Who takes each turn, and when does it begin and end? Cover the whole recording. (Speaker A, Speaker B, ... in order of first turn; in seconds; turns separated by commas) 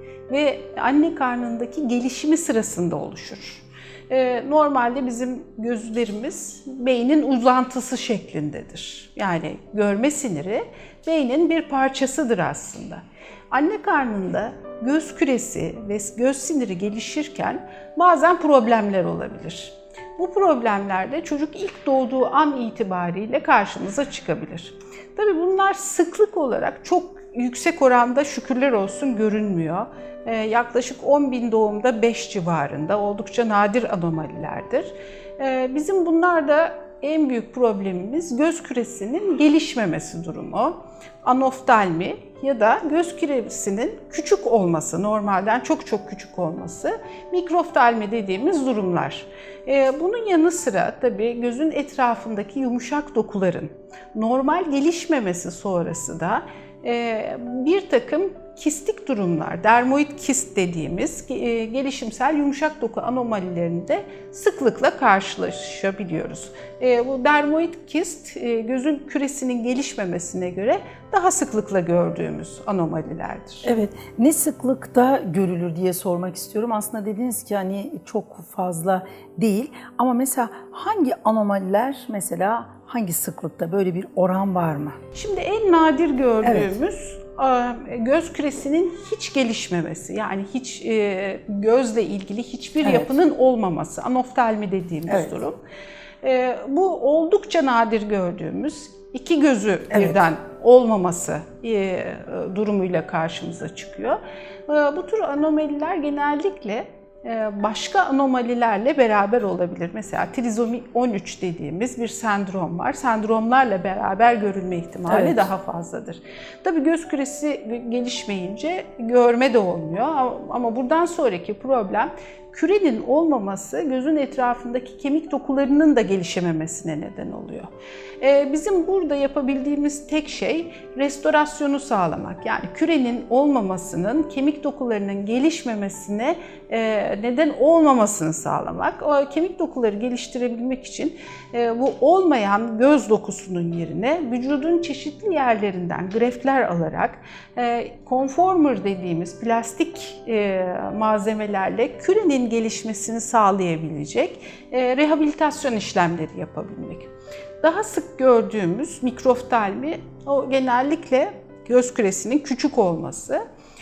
Speaker A: 0.3-73.7, Speaker B: 73.7-85.0, Speaker A: 85.1-95.6, Speaker B: 86.4-86.7, Speaker B: 92.8-93.1, Speaker B: 95.1-95.3, Speaker A: 96.2-157.1, Speaker B: 99.9-100.2, Speaker B: 115.1-115.5, Speaker A: 157.6-163.4